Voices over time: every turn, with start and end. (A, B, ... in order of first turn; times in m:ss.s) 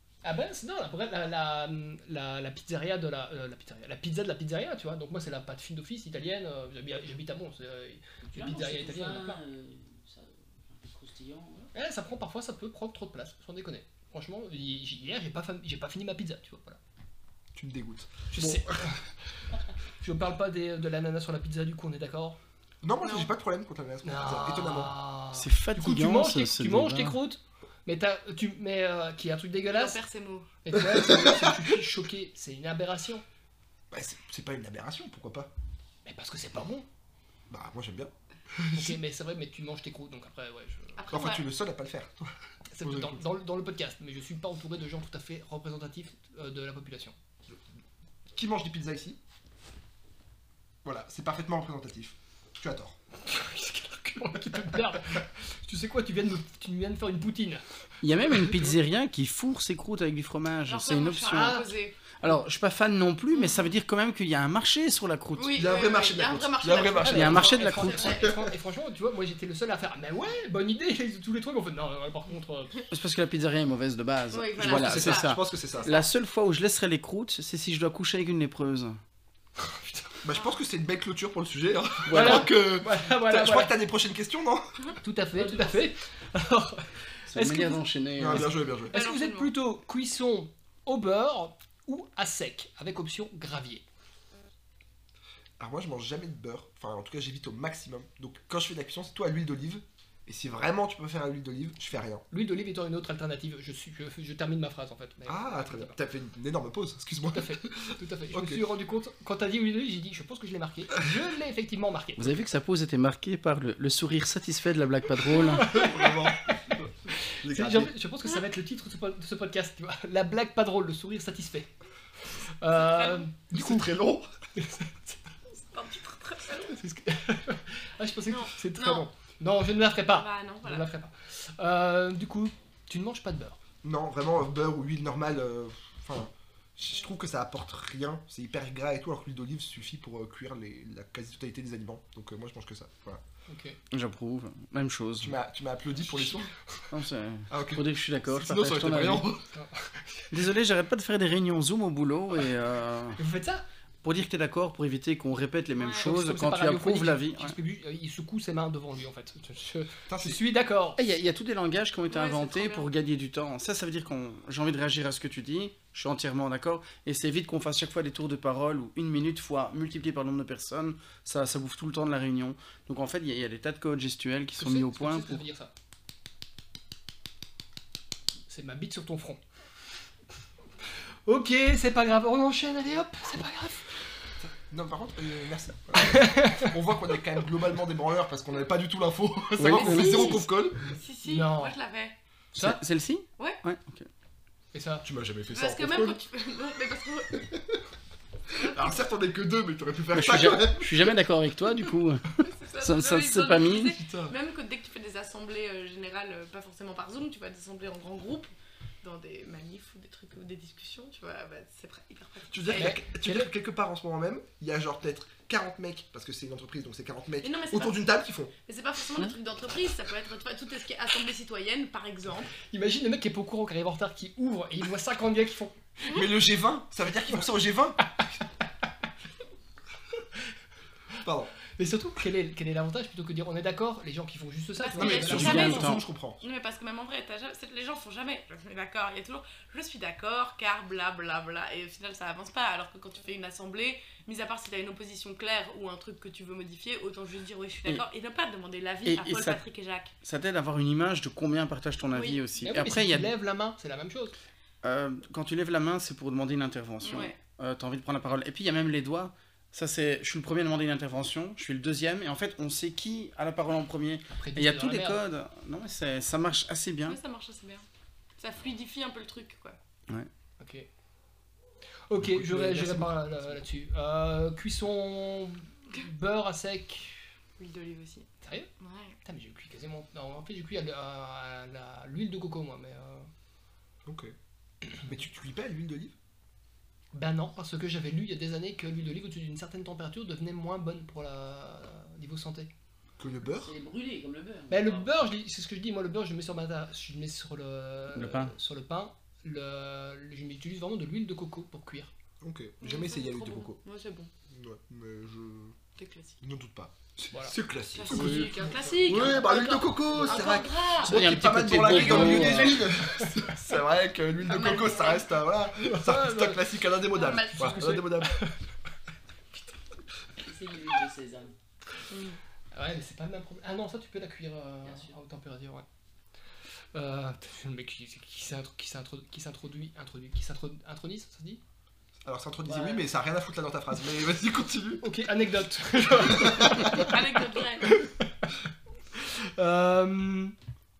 0:00.2-0:09.4 A
0:08.2-0:11.7 B
0:11.7-0:16.8 A
0:17.5-0:18.8 C
0:18.3-0:19.1 A
0:20.0-0:22.4 A
0:22.8-0:24.9 C
0:23.0-0:23.3 D
0:24.0-0:30.0 A
0:25.3-0:27.2 E
0:29.7-0:30.5 D
0:30.6-0:33.2 A
0:30.8-0:31.6 C
0:33.9-0:35.5 C
0:36.0-0:36.8 A
0:37.5-0:39.0 C
0:38.7-0:41.0 A
0:41.0-0:41.4 D
0:41.1-0:43.2 C
0:42.7-0:47.1 A
0:48.3-0:49.2 C
0:50.8-0:53.0 C
0:53.2-0:57.6 A
0:58.0-1:01.6 E
1:00.7-1:02.0 D
1:01.3-1:01.7 A
1:02.2-1:05.6 E
1:03.3-1:03.7 D
1:05.4-1:08.3 D
1:05.5-1:07.6 C
1:07.0-1:08.2 E
1:07.0-1:12.8 A
1:12.9-1:19.0 E
1:14.3-1:16.0 D
1:14.6-1:15.9 C
1:19.6-1:20.1 A
1:20.2-1:24.7 C
1:22.1-1:22.5 E
1:22.1-1:23.7 A
1:25.0-1:33.8 A
1:25.4-1:25.7 D
1:27.3-1:28.6 E
1:28.2-1:28.9 C
1:28.9-1:29.5 D
1:35.6-1:42.2 C
1:42.3-1:46.0 A
1:45.2-1:48.6 C
1:47.3-1:52.3 A
1:52.2-1:55.8 E
1:55.5-1:56.5 A
1:55.7-1:57.9 C
1:57.2-2:01.7 A
2:02.6-2:03.9 A
2:02.8-2:03.3 D
2:03.5-2:04.3 C
2:04.6-2:05.2 A
2:05.6-2:06.8 D
2:06.7-2:13.6 A
2:08.3-2:09.0 D
2:10.0-2:10.9 D
2:13.8-2:23.2 C
2:23.5-2:23.8 A
2:23.9-2:25.4 E
2:25.2-2:26.5 C
2:26.9-2:29.3 E
2:27.5-2:29.4 C
2:29.5-2:30.3 A
2:30.3-2:33.2 E
2:33.2-2:33.6 A
2:34.0-2:37.6 E
2:35.8-2:36.0 D
2:36.0-2:41.0 A
2:40.1-2:40.4 C
2:41.0-2:55.4 E
2:42.1-2:42.9 D
2:54.6-2:55.7 A
2:58.5-2:59.4 A
3:01.2-3:04.0 A
3:04.4-3:10.9 C
3:06.0-3:06.7 A
3:09.6-3:10.4 E
3:09.6-3:10.4 D
3:10.9-3:12.2 D
3:11.2-3:11.8 A
3:12.5-3:12.8 A
3:12.6-3:14.1 E
3:14.7-3:15.0 A
3:15.0-3:16.2 C
3:15.5-3:17.5 D
3:18.5-3:19.0 D
3:18.6-3:21.1 C
3:20.1-3:24.0 E
3:22.4-3:33.0 D
3:24.0-3:24.3 C
3:32.5-3:38.5 C
3:32.7-3:33.5 A
3:37.4-3:42.5 D
3:42.6-3:45.8 A
3:46.1-3:48.0 C
3:51.2-3:51.5 C
3:51.8-3:55.8 A
3:54.8-4:10.1 D
3:55.0-3:56.4 C
3:55.2-3:56.0 E
4:09.0-4:09.6 E
4:10.2-4:13.3 E
4:12.1-4:12.4 D
4:12.6-4:14.3 A
4:14.8-4:27.2 E
4:17.0-4:17.4 D
4:24.3-4:25.2 A
4:27.0-4:27.8 D
4:28.4-4:29.8 D
4:30.6-4:30.9 A
4:32.1-4:37.2 A
4:32.2-4:33.2 C
4:37.6-4:39.2 D
4:38.4-4:38.7 A
4:39.2-4:43.3 A
4:44.0-4:44.3 C
4:45.0-4:46.1 C
4:47.1-4:52.7 A
4:53.2-4:53.7 C
4:53.5-4:55.1 B
4:54.7-5:02.1 A
4:58.1-4:58.5 E
5:02.4-5:03.8 C
5:02.8-5:04.3 D
5:04.5-5:05.8 C
5:06.0-5:06.4 D
5:06.4-5:18.4 C
5:07.9-5:12.7 D
5:08.1-5:09.4 A
5:10.1-5:10.6 A
5:11.0-5:12.9 E
5:13.0-5:13.3 A
5:14.4-5:15.4 D
5:15.8-5:16.6 A
5:17.1-5:18.2 D
5:17.7-5:18.5 A
5:20.4-5:21.5 B
5:22.1-5:22.4 D
5:22.7-5:25.8 A
5:24.8-5:25.1 B
5:26.9-5:31.6 A
5:32.2-5:35.1 C
5:35.0-5:37.2 A
5:36.2-5:37.0 C
5:36.7-5:37.9 D
5:37.8-5:38.5 A
5:39.2-5:40.5 A